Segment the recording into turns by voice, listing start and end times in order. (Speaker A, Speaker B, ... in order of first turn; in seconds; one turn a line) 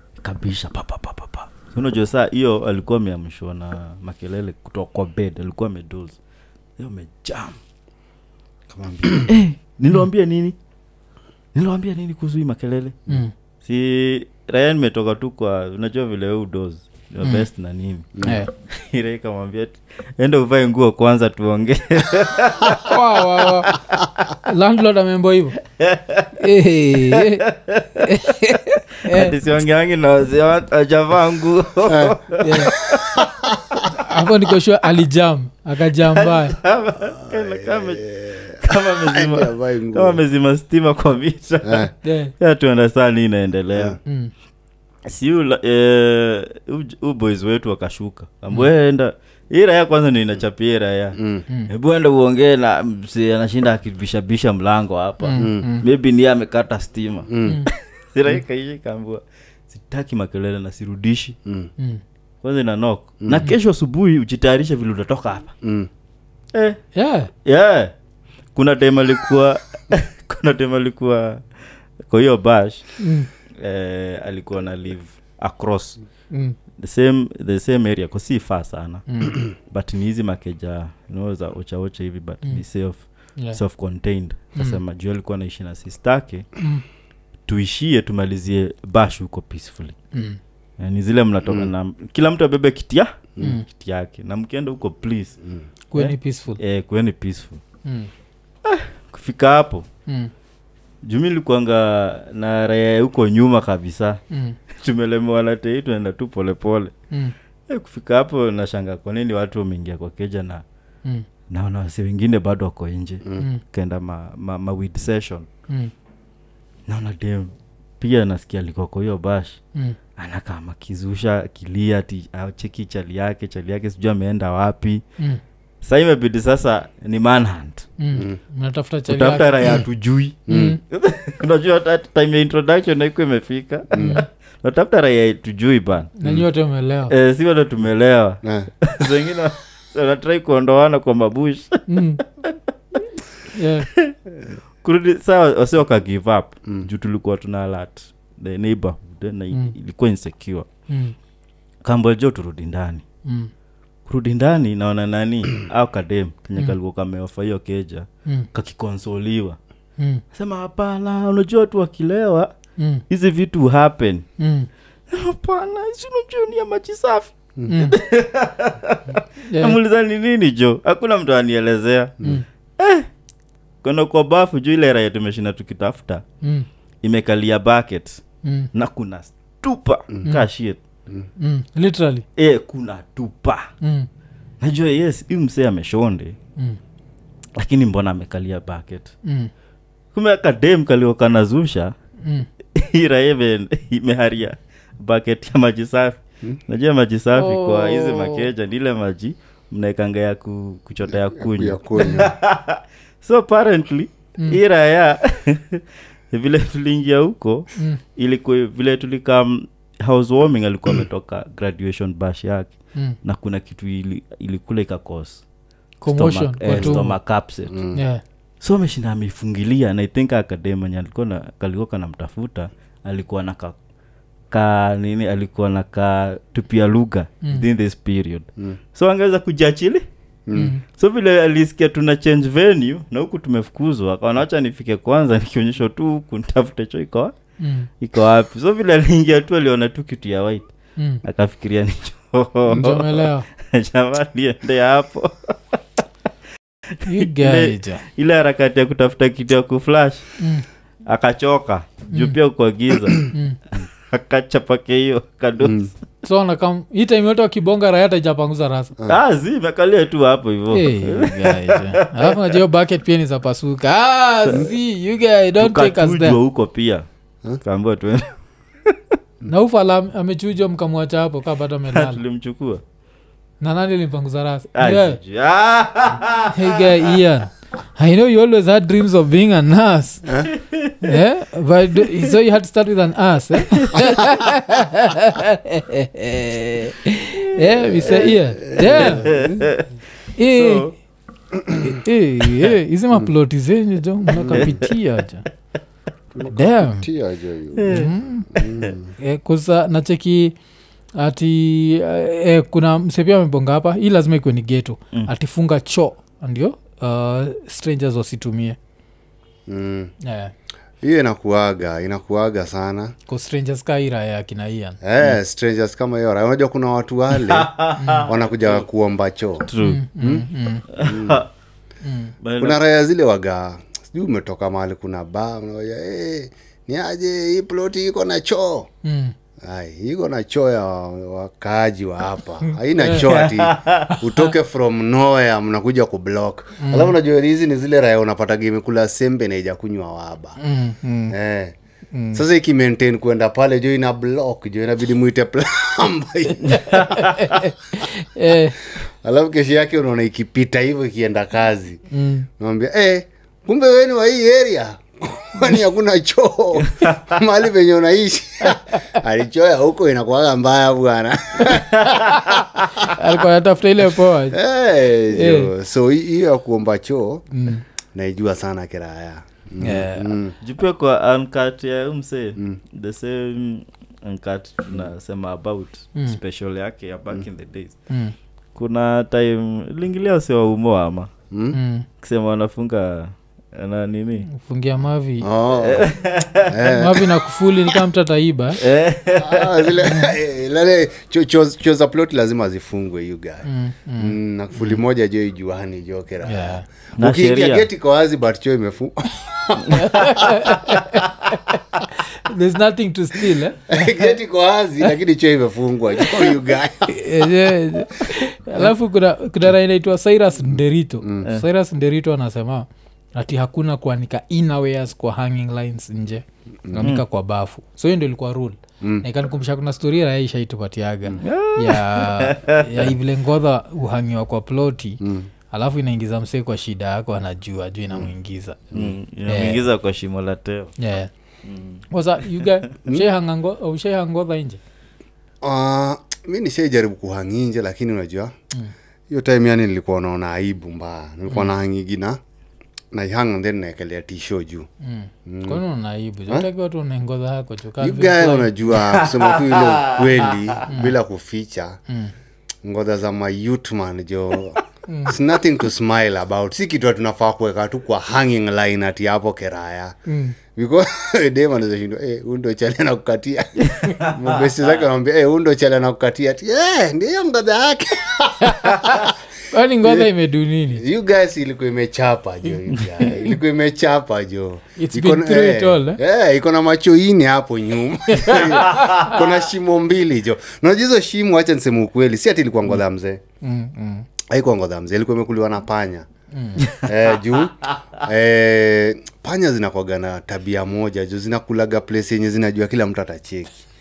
Speaker A: 0.2-6.2
Speaker A: 6.8-7.6
Speaker A: 8.8-10.6
Speaker B: 8.8-9.3
Speaker A: 11.6-13.1
Speaker A: 13.6-23.0
Speaker C: 18.2-18.5
Speaker C: 22.7-23.7
Speaker A: 23.7-24.0
Speaker C: 24.4-25.6
Speaker A: 25.8-26.3
Speaker C: 26.4-27.4
Speaker A: 27.1-28.1
Speaker C: 28.0-29.4
Speaker A: 29.1-33.3
Speaker B: 31.9-32.2
Speaker C: 32.4-32.7
Speaker B: 32.9-33.9
Speaker C: 33.9-36.6
Speaker A: 36.1-44.0
Speaker B: 37.1-40.2
Speaker B: 41.6-41.9
Speaker C: 42.0-42.3
Speaker C: 44.0-44.3
Speaker A: 45.0-61.4
Speaker B: 51.2-51.4
Speaker C: 55.2-55.9
Speaker B: 55.4-55.7
Speaker B: 57.3-57.6
Speaker C: 57.4-57.7
Speaker A: 62.4-65.5
Speaker B: 63.2-63.5
Speaker B: 65.6-65.9
Speaker A: 66.5-66.8
Speaker C: 66.9-67.3
Speaker A: 67.4-67.9
Speaker A: 68.5-71.4
Speaker A: 72.0-72.9
Speaker C: 73.0-73.3
Speaker A: 73.6-76.0
Speaker C: 76.3-76.6
Speaker A: 76.8-86.5
Speaker C: 79.1-79.4
Speaker A: 87.5-90.0
Speaker C: 90.1-90.4
Speaker A: 90.8-95.4
Speaker B: 91.5-91.7
Speaker C: 93.4-93.7
Speaker C: 95.9-96.6
Speaker A: 95.9-97.6
Speaker C: 97.8-98.1
Speaker A: 98.6-99.8
Speaker C: 100.1-100.3
Speaker A: 101.0-104.2
Speaker C: 104.3-104.6
Speaker A: 104.7-106.9
Speaker A: 107.7-110.6
Speaker A: 111.5-115.5
Speaker A: 116.9-119.6
Speaker A: 120.2-125.0
Speaker A: 125.8-127.9
Speaker C: 128.0-129.8
Speaker A: 129.1-136.1
Speaker B: 130.5-130.8
Speaker C: 130.5-130.8
Speaker B: 133.9-134.2
Speaker C: 134.0-134.3
Speaker C: 136.2-137.1
Speaker A: 137.1-142.6
Speaker B: 138.4-138.7
Speaker C: 141.9-142.2
Speaker C: 143.5-143.9
Speaker A: 143.9-144.2
Speaker A: 144.8-150.7
Speaker C: 150.9-151.2
Speaker A: 151.8-153.0
Speaker C: 153.2-153.5
Speaker A: 154.1-159.6
Speaker C: 160.0-160.2
Speaker A: 160.3-162.5
Speaker C: 162.8-163.0
Speaker A: 163.1-164.3
Speaker C: 164.4-164.7
Speaker A: 165.1-173.1
Speaker C: 167.7-167.9
Speaker C: 169.4-169.8
Speaker A: 173.8-176.2
Speaker C: 176.4-176.7
Speaker A: 177.0-178.2
Speaker C: 178.4-178.7
Speaker A: 178.7-180.8
Speaker C: 181.4-182.2
Speaker A: 182.3-183.7
Speaker C: 183.8-184.1
Speaker A: 184.6-186.3
Speaker A: 187.6-189.1
Speaker C: 189.2-189.5
Speaker A: 190.1-191.9
Speaker C: 192.2-192.5
Speaker A: 192.7-212.7
Speaker C: 197.3-198.5
Speaker B: 201.4-202.3
Speaker C: 202.0-202.2
Speaker A: 213.2-215.4
Speaker C: 216.0-217.2
Speaker A: 216.1-217.8
Speaker B: 217.7-218.0
Speaker C: 217.9-218.2
Speaker A: 218.6-223.8
Speaker A: 224.5-230.1
Speaker B: 230.5-230.7
Speaker C: 230.5-230.8
Speaker A: 230.9-237.3
Speaker C: 237.6-237.9
Speaker A: 238.0-240.7
Speaker C: 241.0-241.2
Speaker A: 241.2-245.8
Speaker C: 242.7-243.4
Speaker A: 246.9-250.3
Speaker C: 247.1-248.0
Speaker C: 250.4-250.6
Speaker A: 251.1-255.9
Speaker C: 253.3-253.6
Speaker B: 255.6-255.9
Speaker C: 256.2-258.9
Speaker A: 259.1-262.6
Speaker C: 260.7-266.4
Speaker A: 265.6-267.1
Speaker A: 267.6-268.9
Speaker C: 269.4-272.2
Speaker A: 271.9-272.8
Speaker C: 273.6-275.2
Speaker A: 274.8-277.1
Speaker C: 276.5-280.3
Speaker A: 280.5-281.2
Speaker C: 281.0-289.3
Speaker A: 283.6-284.2
Speaker B: 288.0-289.7
Speaker A: 288.8-289.9
Speaker C: 290.4-290.9
Speaker A: 290.5-290.9
Speaker B: 291.5-292.0
Speaker C: 291.7-295.4
Speaker B: 294.3-294.8
Speaker A: 294.4-294.9
Speaker B: 296.3-299.1
Speaker C: 296.5-297.1
Speaker A: 297.8-298.1
Speaker C: 297.9-298.5
Speaker A: 298.6-298.9
Speaker C: 299.2-300.6
Speaker C: 301.2-308.8
Speaker B: 309.7-310.1
Speaker C: 310.2-310.5
Speaker B: 311.0-313.1
Speaker C: 313.3-315.0
Speaker B: 315.0-317.7
Speaker A: 317.3-318.8
Speaker C: 318.0-318.3
Speaker B: 318.2-319.7
Speaker A: 319.7-320.0
Speaker C: 319.8-320.9
Speaker B: 320.2-320.5
Speaker A: 320.9-321.5
Speaker B: 321.0-321.4
Speaker C: 322.0-322.3
Speaker A: 322.4-322.8
Speaker B: 322.6-328.9
Speaker C: 329.0-329.3
Speaker B: 329.6-340.6
Speaker C: 332.6-333.3
Speaker A: 333.2-334.2
Speaker C: 336.8-337.1
Speaker C: 340.6-341.3
Speaker B: 341.3-341.8
Speaker C: 342.1-342.4
Speaker B: 342.3-347.3
Speaker C: 346.7-348.8
Speaker A: 346.7-347.3
Speaker B: 349.0-352.0
Speaker C: 352.1-352.5
Speaker B: 352.6-362.5
Speaker A: 356.8-357.3
Speaker A: 361.7-362.4
Speaker C: 362.3-364.6
Speaker B: 364.5-367.4
Speaker C: 365.3-365.7
Speaker C: 367.5-367.8
Speaker B: 368.1-370.6
Speaker C: 369.8-370.3
Speaker A: 370.6-377.9
Speaker C: 378.1-378.3
Speaker A: 378.8-381.3
Speaker B: 381.5-381.8
Speaker C: 381.7-382.1
Speaker A: 382.2-384.5
Speaker C: 384.5-385.5
Speaker B: 385.4-386.1
Speaker A: 385.8-386.9
Speaker B: 386.7-387.3
Speaker C: 386.9-388.8
Speaker A: 388.8-389.9
Speaker B: 389.4-393.6
Speaker C: 390.0-390.3
Speaker C: 393.6-395.0
Speaker B: 394.2-400.8
Speaker C: 396.4-396.8
Speaker A: 397.2-397.9
Speaker C: 399.9-404.2
Speaker B: 403.9-407.3
Speaker C: 407.1-428.8
Speaker B: 416.8-417.1
Speaker A: 421.4-423.1
Speaker B: 425.2-425.5
Speaker A: 428.9-430.9
Speaker C: 429.5-429.8
Speaker C: 431.0-431.3
Speaker A: 431.6-432.0
Speaker C: 432.1-434.8
Speaker B: 435.6-438.5
Speaker B: 439.3-442.4
Speaker B: 443.1-444.9
Speaker C: 445.0-448.7
Speaker B: 445.4-445.8
Speaker B: 448.0-452.0
Speaker A: 449.0-450.8
Speaker C: 450.9-451.1
Speaker C: 452.1-452.3
Speaker B: 452.8-460.2
Speaker C: 455.1-455.4
Speaker C: 460.3-460.6
Speaker B: 460.8-469.3
Speaker A: 463.9-464.7
Speaker C: 468.6-471.0
Speaker B: 470.9-483.4
Speaker C: 473.2-473.5
Speaker C: 475.0-476.2
Speaker C: 478.3-479.4
Speaker C: 483.6-484.3
Speaker B: 484.5-486.3
Speaker C: 486.5-486.9
Speaker A: 486.8-487.1
Speaker B: 486.9-493.8